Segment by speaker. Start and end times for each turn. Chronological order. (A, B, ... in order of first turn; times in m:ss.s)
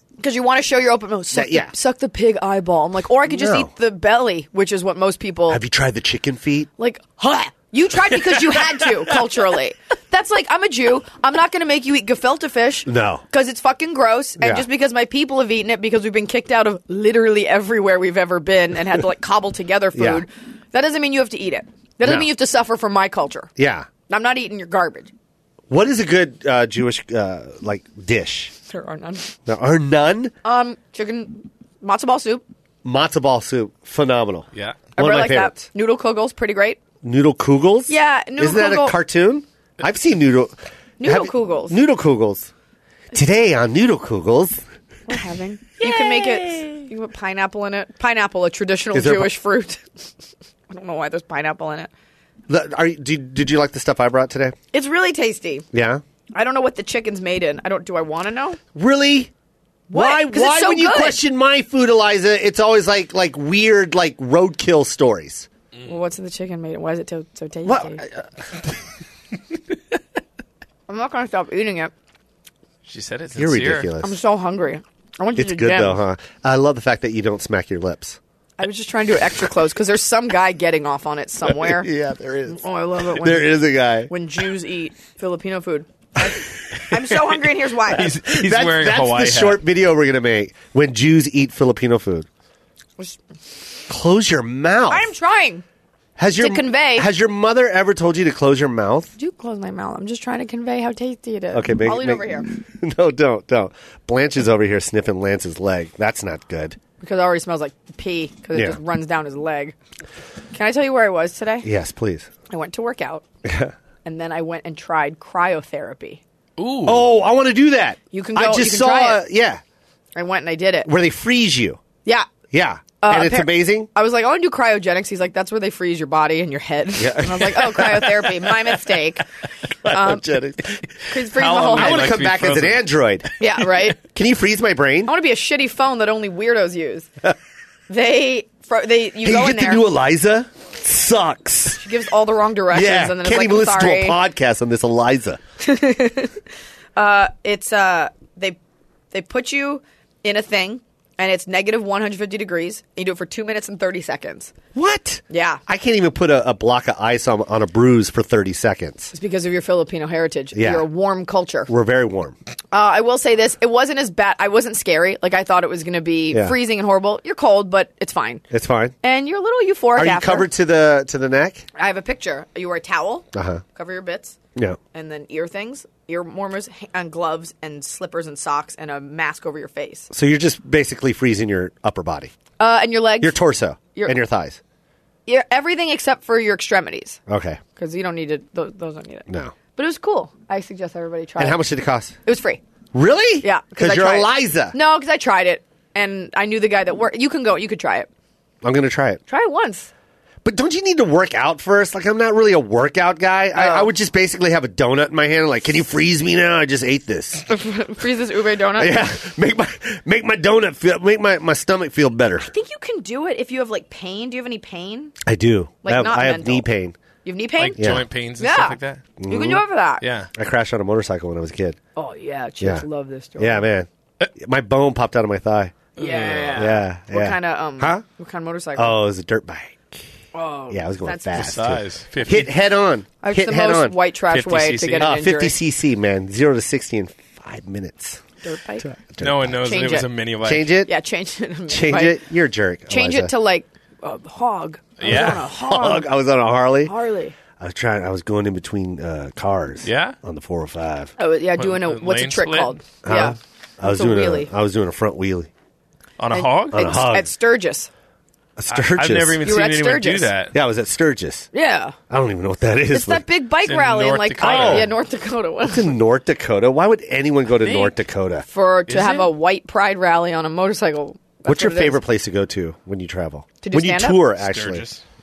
0:00.2-0:05.6 A
0:01.3-0:01.7 B
0:03.3-0:03.7 B
0:05.5-0:06.7 B
0:06.8-0:23.5 A
0:12.8-0:13.2 B
0:14.4-0:14.6 B
0:19.9-0:20.2 B
0:23.6-0:23.9 B
0:24.1-0:25.1 A
0:25.7-0:28.5 B
0:28.7-0:29.3 A
0:29.4-0:30.3 B
0:30.4-0:32.4 A
0:32.8-0:35.6 B
0:34.5-0:34.8 C
0:35.0-0:36.8 A
0:37.0-0:42.5 B
0:37.9-0:39.0 A
0:41.0-0:41.8 A
0:43.1-0:44.6 B
0:45.1-0:49.8 A
0:45.8-0:46.6 B
0:48.9-0:49.4 B
0:50.7-0:51.9 A
0:52.5-0:54.6 B
0:54.7-0:55.6 A
0:55.7-0:56.0 B
0:56.3-0:58.6 A
0:58.8-0:59.3 B
0:59.9-1:01.2 A
0:59.9-1:05.5 B
1:05.9-1:08.0 A
1:07.6-1:08.2 B
1:10.9-1:11.9 A
1:12.8-1:13.9 C
1:13.3-1:14.2 B
1:14.0-1:16.0 A
1:15.4-1:18.2 B
1:18.6-1:21.9 A
1:21.5-1:24.1 B
1:22.5-1:28.1 A
1:27.9-1:29.6 C
1:28.0-1:32.3 B
1:33.9-1:35.1 B
1:34.9-1:35.6 A
1:36.2-1:39.1 B
1:36.4-1:37.1 A
1:39.2-1:42.5 A
1:41.5-1:46.8 B
1:47.0-1:49.8 A
1:48.5-1:48.8 B
1:50.5-1:51.7 A
1:51.6-1:52.3 B
1:52.5-1:53.2 A
1:53.4-1:53.7 B
1:54.0-1:56.2 A
1:56.6-1:57.1 C
1:56.8-1:59.6 B
1:58.1-1:59.2 A
2:00.1-2:00.9 A
2:00.8-2:01.8 B
2:02.5-2:03.9 B
2:03.0-2:09.2 A
2:07.0-2:08.8 B
2:09.8-2:11.0 B
2:09.9-2:10.2 A
2:11.1-2:12.1 A
2:11.3-2:12.8 C
2:11.7-2:13.3 B
2:13.4-2:14.0 A
2:13.9-2:15.1 B
2:15.0-2:17.1 A
2:17.9-2:19.8 A
2:19.2-2:21.8 B
2:21.8-2:24.2 A
2:22.7-2:25.4 B
2:25.6-2:26.4 A
2:27.0-2:28.6 A
2:29.1-2:34.5 A
2:34.7-2:39.1 B
2:35.3-2:35.6 A
2:39.1-2:41.7 A
2:40.5-2:40.9 B
2:41.7-2:42.4 B
2:42.7-2:48.4 A
2:48.5-2:49.0 B
2:49.0-2:50.5 A
2:50.0-2:51.6 B
2:51.8-2:54.4 A
2:53.3-2:53.6 B
2:54.9-3:00.1 A
3:00.1-3:02.3 B
3:02.6-3:03.4 A
3:03.2-3:04.6 B
3:05.2-3:07.2 A
3:07.3-3:07.6 B
3:07.8-3:11.6 A
3:09.3-3:09.5 B
3:11.4-3:12.2 B
3:12.2-3:12.6 A
3:12.9-3:14.8 B
3:13.4-3:18.1 A
3:18.6-3:19.2 B
3:19.3-3:19.9 A
3:20.4-3:27.5 B
3:23.5-3:23.9 A
3:27.5-3:29.0 A
3:28.8-3:32.5 B
3:32.4-3:35.1 A
3:35.2-3:37.0 B
3:35.8-3:36.6 A
3:37.2-3:40.0 A
3:37.6-3:39.0 C
3:37.8-3:38.0 B
3:39.2-3:39.6 B
3:40.0-3:40.3 C
3:40.3-3:41.8 B
3:42.0-3:43.7 A
3:43.4-3:45.8 B
3:46.0-3:46.8 C
3:46.0-3:49.0 A
3:46.5-3:48.0 B
3:48.8-3:50.0 B
3:50.3-3:51.5 A
3:50.7-3:54.0 B
3:51.3-3:52.5 C
3:53.2-3:55.6 A
3:54.3-3:55.1 C
3:55.0-3:58.2 B
3:58.4-3:58.9 A
3:58.8-3:59.9 B
3:59.2-4:00.8 C
3:59.6-4:00.1 A
4:00.4-4:00.9 B
4:00.8-4:02.2 A
4:01.7-4:03.3 B
4:02.9-4:06.1 A
4:05.0-4:05.4 C
4:05.0-4:06.9 B
4:06.8-4:07.3 A
4:07.6-4:11.1 B
4:09.8-4:10.2 C
4:11.2-4:14.5 A
4:11.6-4:12.8 C
4:13.0-4:15.5 B
4:16.2-4:16.8 C
4:16.3-4:17.9 A
4:16.7-4:17.3 B
4:18.6-4:19.4 B
4:18.7-4:20.5 C
4:19.4-4:20.3 A
4:20.5-4:21.5 B
4:21.5-4:22.0 A
4:22.1-4:23.2 B
4:22.9-4:25.9 A
4:23.6-4:24.9 C
4:24.4-4:24.9 B
4:25.6-4:28.5 B
4:27.6-4:27.9 A
4:28.5-4:32.0 A
4:28.9-4:29.3 C
4:31.4-4:34.8 B
4:33.6-4:34.2 A
4:34.4-4:35.0 C